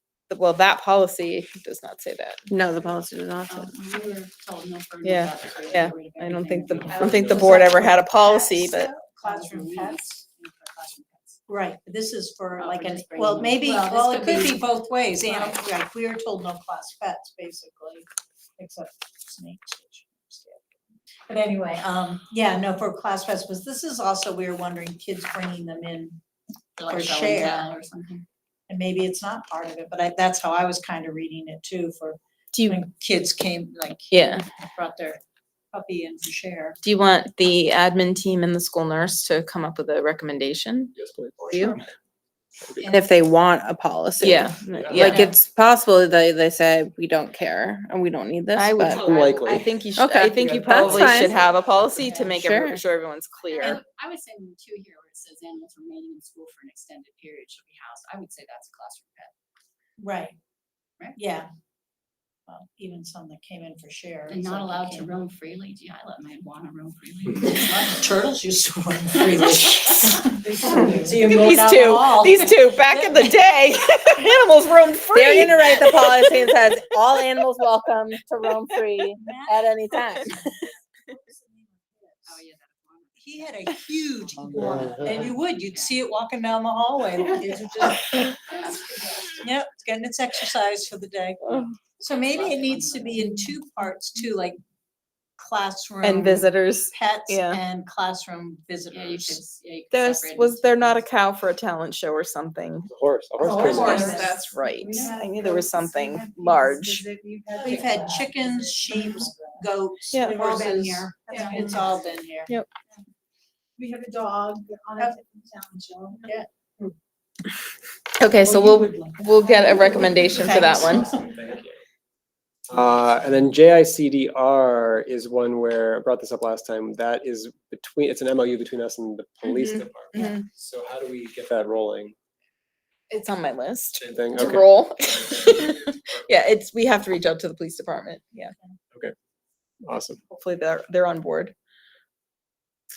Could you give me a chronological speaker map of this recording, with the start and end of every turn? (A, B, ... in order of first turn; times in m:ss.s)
0:00.3-0:02.4 A
0:02.5-0:03.8 B
0:03.5-0:08.0 C
0:05.0-0:08.9 A
0:06.9-0:10.2 D
0:09.2-0:11.4 C
0:11.5-0:18.1 D
0:12.6-0:15.7 C
0:18.6-0:26.2 D
0:26.8-0:28.3 C
0:26.8-0:27.8 D
0:28.7-0:35.2 D
0:34.1-0:34.4 A
0:35.7-0:36.8 D
0:36.8-0:40.9 A
0:41.0-0:41.8 E
0:41.5-0:41.8 A
0:42.6-0:42.9 E
0:42.8-0:49.0 B
0:44.2-0:45.3 A
0:44.8-0:45.2 E
0:48.6-0:53.8 A
0:48.9-0:49.7 E
0:50.0-0:51.4 B
0:50.4-0:52.1 E
0:52.0-0:52.2 C
0:52.3-0:52.8 B
0:53.4-0:59.3 C
1:00.0-1:00.4 D
1:01.2-1:01.5 D
1:02.5-1:05.1 D
1:04.3-1:08.2 C
1:07.5-1:13.3 D
1:10.7-1:16.8 A
1:15.1-1:20.7 B
1:19.2-1:22.4 D
1:22.3-1:26.0 C
1:23.2-1:28.4 D
1:29.4-1:34.6 D
1:31.4-1:31.7 A
1:32.0-1:33.2 C
1:35.4-1:39.4 D
1:36.0-1:37.6 A
1:38.9-1:41.1 C
1:39.9-1:42.9 A
1:42.9-1:44.1 E
1:43.4-1:44.3 F
1:43.5-1:45.2 D
1:43.6-1:47.1 A
1:43.8-1:44.3 C
1:44.8-1:49.6 F
1:47.6-1:52.5 D
1:47.8-1:48.1 C
1:50.1-1:50.4 A
1:50.3-1:51.8 F
1:53.8-1:56.2 F
1:55.0-1:55.2 D
1:56.2-1:56.5 D
1:58.2-2:01.1 A
2:00.3-2:01.3 D
2:01.1-2:01.8 E
2:02.7-2:12.2 E
2:09.4-2:10.4 A
2:13.1-2:18.5 A
2:14.0-2:15.7 E
2:19.8-2:20.2 E
2:20.3-2:21.5 A